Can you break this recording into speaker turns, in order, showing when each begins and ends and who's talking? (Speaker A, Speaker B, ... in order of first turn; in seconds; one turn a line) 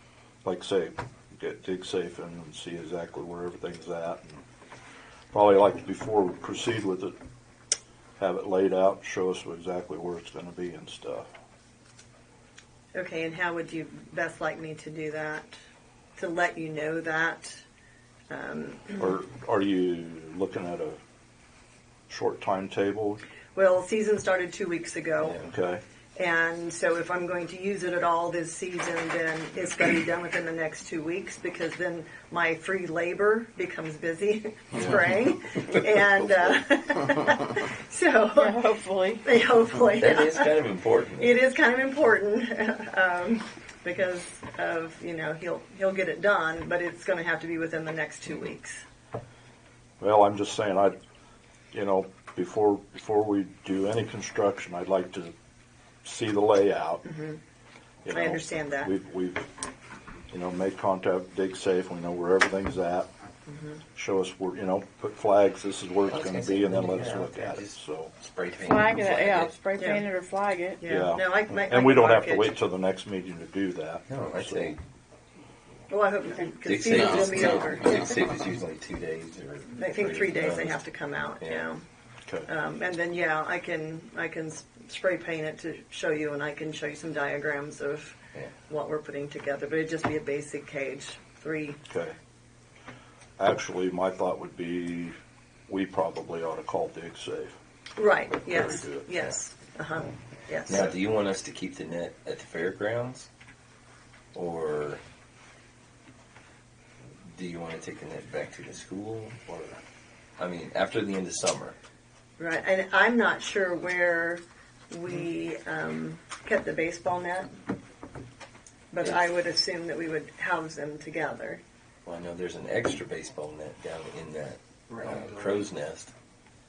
Speaker A: 0.4-4.4
Speaker A: 5.3-7.1
Speaker A: 8.2-11.3
Speaker B: 12.9-15.6
Speaker B: 16.2-17.6
Speaker B: 18.3-19.0
Speaker A: 19.0-21.0
Speaker A: 22.1-23.2
Speaker B: 23.5-25.4
Speaker A: 25.4-25.8
Speaker B: 26.1-40.5
Speaker C: 38.4-39.2
Speaker D: 40.0-41.3
Speaker B: 41.2-48.8
Speaker A: 50.0-51.0
Speaker A: 51.7-55.3
Speaker A: 56.0-57.0
Speaker B: 57.0-57.4
Speaker A: 58.0-59.5
Speaker B: 58.1-58.9
Speaker A: 60.3-63.1
Speaker B: 63.5-63.8
Speaker A: 63.9-68.1
Speaker D: 66.1-69.6
Speaker C: 68.6-70.8
Speaker B: 69.8-70.1
Speaker B: 70.8-72.5
Speaker A: 70.8-74.7
Speaker D: 74.1-74.8
Speaker B: 75.9-78.2
Speaker D: 76.6-80.8
Speaker B: 79.7-81.8
Speaker D: 81.4-81.7
Speaker B: 82.5-88.2
Speaker B: 88.7-91.8
Speaker A: 91.9-92.2
Speaker A: 93.4-95.2
Speaker A: 95.7-97.6
Speaker B: 98.0-100.9
Speaker A: 98.5-99.1
Speaker D: 100.7-103.3
Speaker D: 104.3-105.0
Speaker D: 107.2-109.8
Speaker D: 110.4-111.8
Speaker B: 112.4-117.5
Speaker B: 118.9-121.6
Speaker D: 119.0-119.3
Speaker D: 122.0-126.1